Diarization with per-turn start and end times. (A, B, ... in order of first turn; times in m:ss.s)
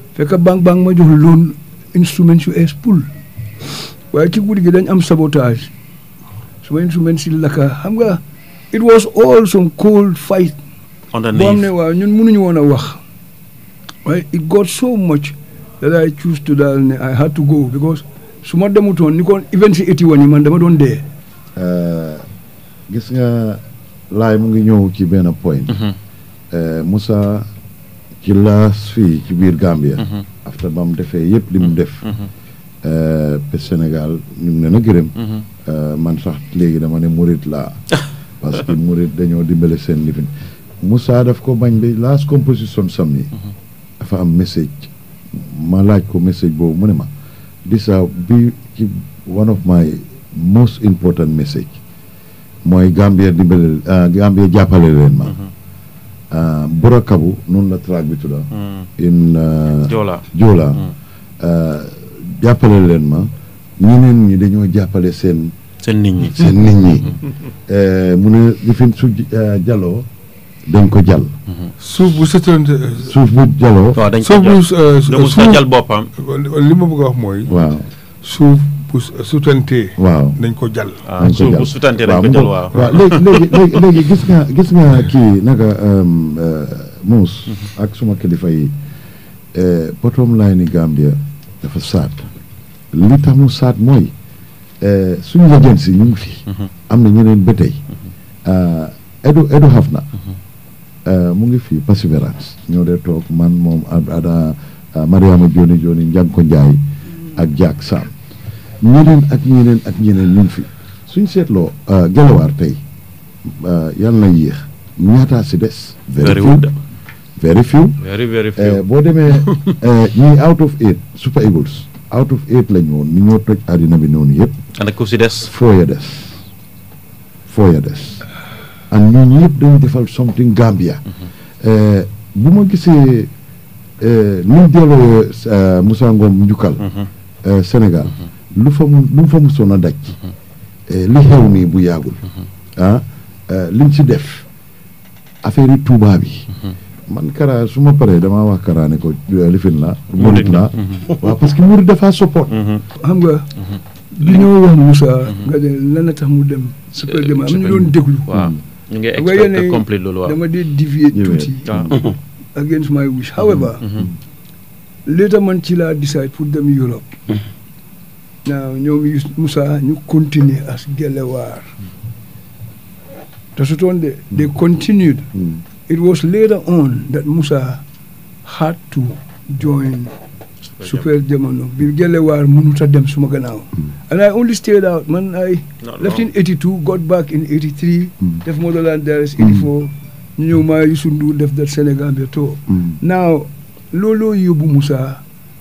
0:00.2-0:03.1 A
0:04.1-0:05.7 A
0:06.6-0:10.6 A
0:11.1-0:11.7 B
0:11.3-0:13.0 A
0:14.0-0:21.0 A
0:21.6-0:22.2 C
0:22.9-0:25.8 C
0:26.5-0:27.5 C
0:28.2-0:32.1 C
0:32.8-0:37.8 C
0:35.2-0:35.4 B
0:38.4-0:43.3 C
0:44.0-0:47.1 C
0:47.6-0:51.8 C
0:52.6-0:55.4 C
0:56.3-1:00.8 C
0:58.5-0:58.9 B
0:59.9-1:00.9 B
1:01.4-1:05.5 C
1:05.8-1:06.6 B
1:06.2-1:07.1 C
1:07.7-1:10.1 C
1:10.7-1:11.3 C
1:11.8-1:13.1 D
1:13.0-1:14.0 C
1:14.0-1:16.1 B
1:14.2-1:17.5 D
1:17.5-1:17.9 C
1:18.2-1:21.0 D
1:20.0-1:20.4 C
1:21.0-1:23.8 B
1:21.2-1:28.7 C
1:29.5-1:32.3 C
1:32.9-1:34.1 C
1:34.8-1:37.8 C
1:38.4-1:40.1 C
1:41.0-1:46.8 C
1:47.3-1:48.1 C
1:48.8-1:52.8 C
1:53.4-1:56.7 C
1:56.2-1:56.7 B
1:57.4-1:58.0 C
1:58.0-1:58.8 B
1:58.5-2:04.6 C
1:59.4-1:59.7 B
2:04.8-2:05.5 B
2:05.4-2:06.4 C
2:07.5-2:08.2 C
2:08.9-2:11.0 C
2:11.6-2:13.3 C
2:14.0-2:16.9 C
2:17.4-2:20.2 C
2:20.9-2:22.2 C
2:22.8-2:24.4 C
2:25.4-2:26.5 C
2:27.1-2:32.6 C
2:30.2-2:31.1 B
2:32.5-2:32.8 B
2:33.0-2:33.5 A
2:34.1-2:38.3 A
2:37.0-2:40.4 B
2:39.2-2:41.7 A
2:41.1-2:42.1 C
2:41.7-2:41.9 B
2:42.5-2:43.8 A
2:43.8-2:44.1 B
2:45.0-2:47.2 A
2:48.4-2:51.7 A
2:53.6-2:55.3 A
2:55.9-2:57.8 A
2:58.4-3:00.1 A
3:00.7-3:01.1 B
3:00.8-3:15.2 A
3:05.8-3:06.3 B